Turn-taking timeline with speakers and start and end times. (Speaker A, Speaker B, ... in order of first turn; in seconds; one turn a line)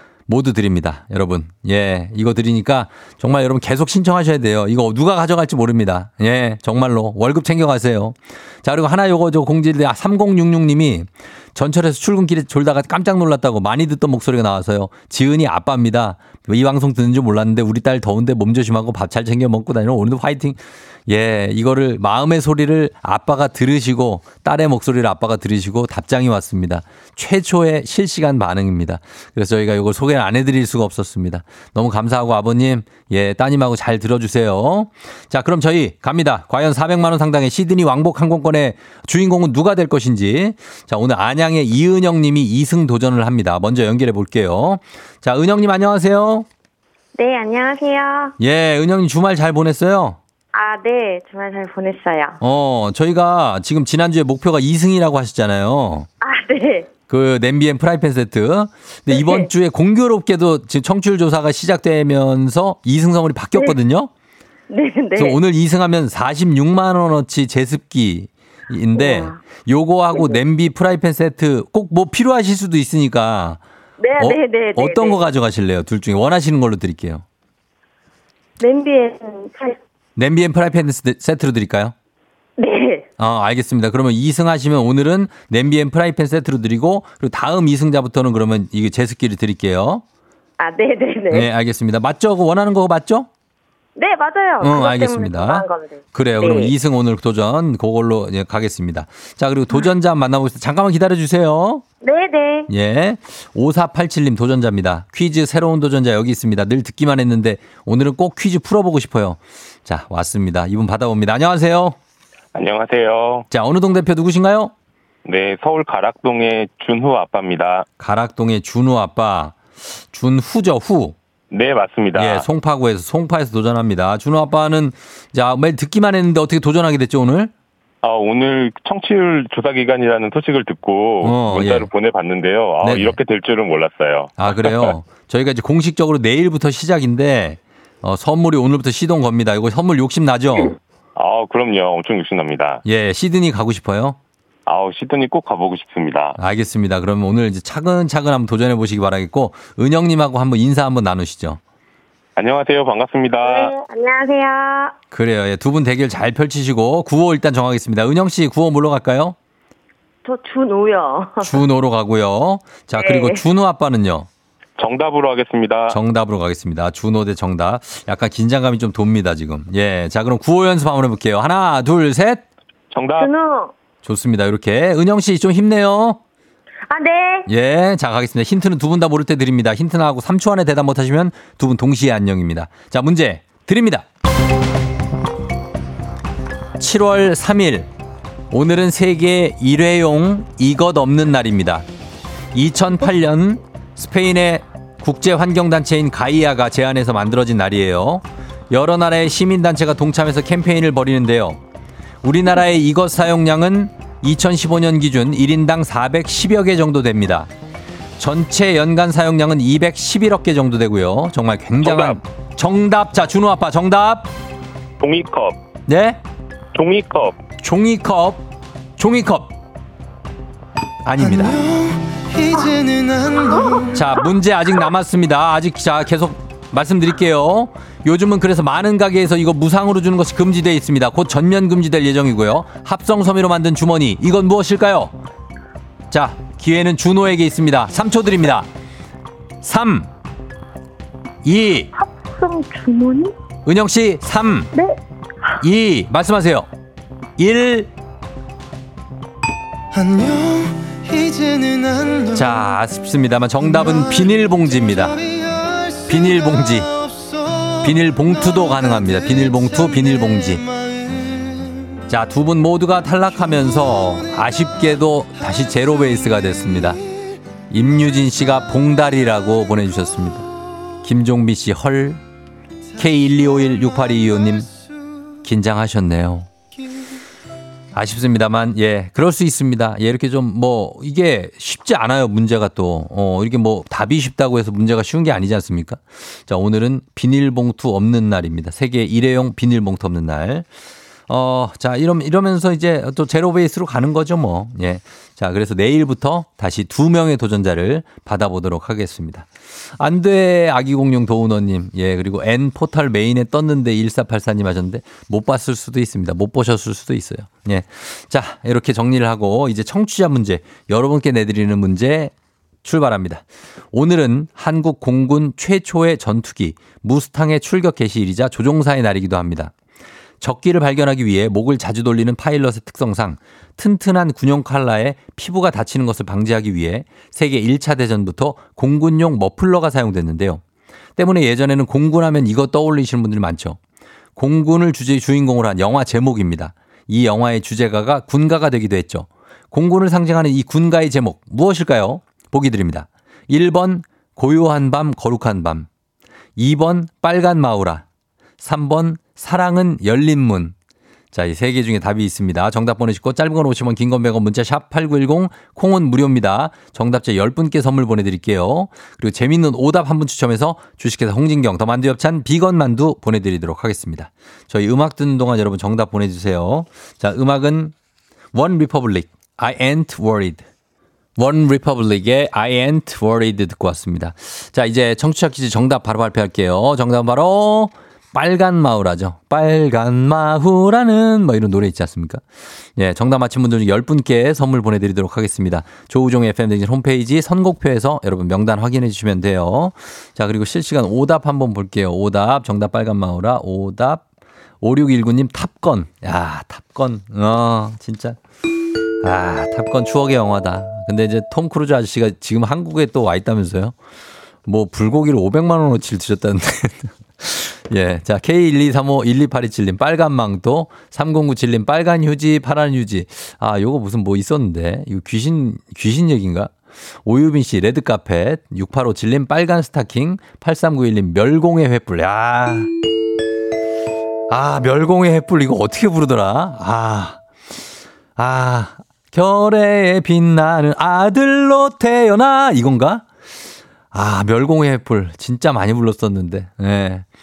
Speaker A: 0.3-46.5
Speaker B: 47.2-48.3
Speaker A: 48.4-50.2
Speaker B: 50.5-52.4
Speaker A: 52.4-56.1
Speaker B: 56.2-56.9
Speaker A: 57.1-64.1
Speaker B: 59.1-59.5
Speaker B: 64.7-65.3
Speaker A: 65.2-73.6
Speaker B: 68.9-69.4
Speaker B: 74.0-75.2
Speaker A: 74.2-77.2
Speaker B: 78.6-79.8
Speaker A: 80.2-81.9
Speaker B: 82.6-83.0
Speaker A: 83.2-90.0
Speaker B: 90.6-91.5
Speaker A: 91.3-93.3
Speaker B: 94.0-96.7
Speaker A: 94.6-101.8
Speaker B: 102.0-102.7
Speaker A: 102.7-112.0
Speaker C: 112.5-113.5
Speaker A: 113.5-114.7
Speaker C: 115.2-117.8
Speaker A: 118.0-121.2
Speaker C: 121.5-122.5
Speaker A: 122.1-127.5
Speaker C: 128.0-134.9
Speaker A: 131.2-131.9
Speaker A: 132.8-133.2
Speaker A: 134.4-140.8
Speaker C: 141.2-142.8
Speaker A: 142.8-144.2
Speaker C: 144.7-146.3
Speaker A: 146.4-151.6
Speaker C: 152.3-153.7
Speaker B: 153.4-154.9
Speaker A: 155.1-159.3
Speaker B: 160.2-161.5
Speaker A: 161.4-164.3
Speaker B: 163.0-163.4
Speaker C: 164.8-166.0
Speaker A: 165.9-172.4
Speaker C: 172.9-173.3
Speaker B: 173.2-173.7
Speaker A: 174.0-176.2
Speaker B: 176.9-177.4
Speaker A: 177.5-184.1
Speaker A: 186.8-187.9
Speaker A: 188.5-191.8
Speaker A: 192.5-201.6
Speaker A: 202.2-207.5
Speaker A: 208.2-214.3
Speaker C: 211.8-212.2
Speaker C: 215.0-215.6
Speaker A: 215.9-216.2
Speaker C: 216.7-217.4
Speaker A: 217.6-219.5
Speaker A: 221.0-221.6
Speaker D: 221.7-223.8
Speaker A: 223.9-235.1
Speaker A: 236.1-238.7
Speaker A: 239.6-240.1
Speaker A: 241.4-241.9
Speaker B: 242.0-243.2
Speaker A: 243.6-244.7
Speaker A: 245.6-246.7
Speaker A: 247.4-247.9
Speaker D: 249.9-252.3
Speaker A: 252.3-255.2
Speaker D: 255.3-257.7
Speaker A: 256.1-256.9
Speaker A: 257.8-260.6
Speaker A: 262.1-267.0
Speaker A: 267.7-270.5
Speaker A: 271.0-272.2
Speaker A: 272.9-274.7
Speaker A: 275.4-276.5
Speaker A: 277.9-290.7
Speaker A: 291.3-312.3
Speaker A: 312.8-319.7
Speaker A: 320.4-330.6
Speaker A: 331.2-333.8
Speaker A: 334.4-345.9
Speaker A: 346.6-348.0
Speaker A: 348.6-350.7
Speaker A: 351.3-367.9
Speaker A: 368.5-370.6
Speaker A: 371.4-382.4
Speaker A: 382.9-394.2
Speaker A: 394.8-398.4
Speaker A: 399.2-403.9
Speaker A: 404.6-422.9
Speaker A: 424.5-427.4
Speaker A: 428.4-433.2
Speaker A: 434.1-437.2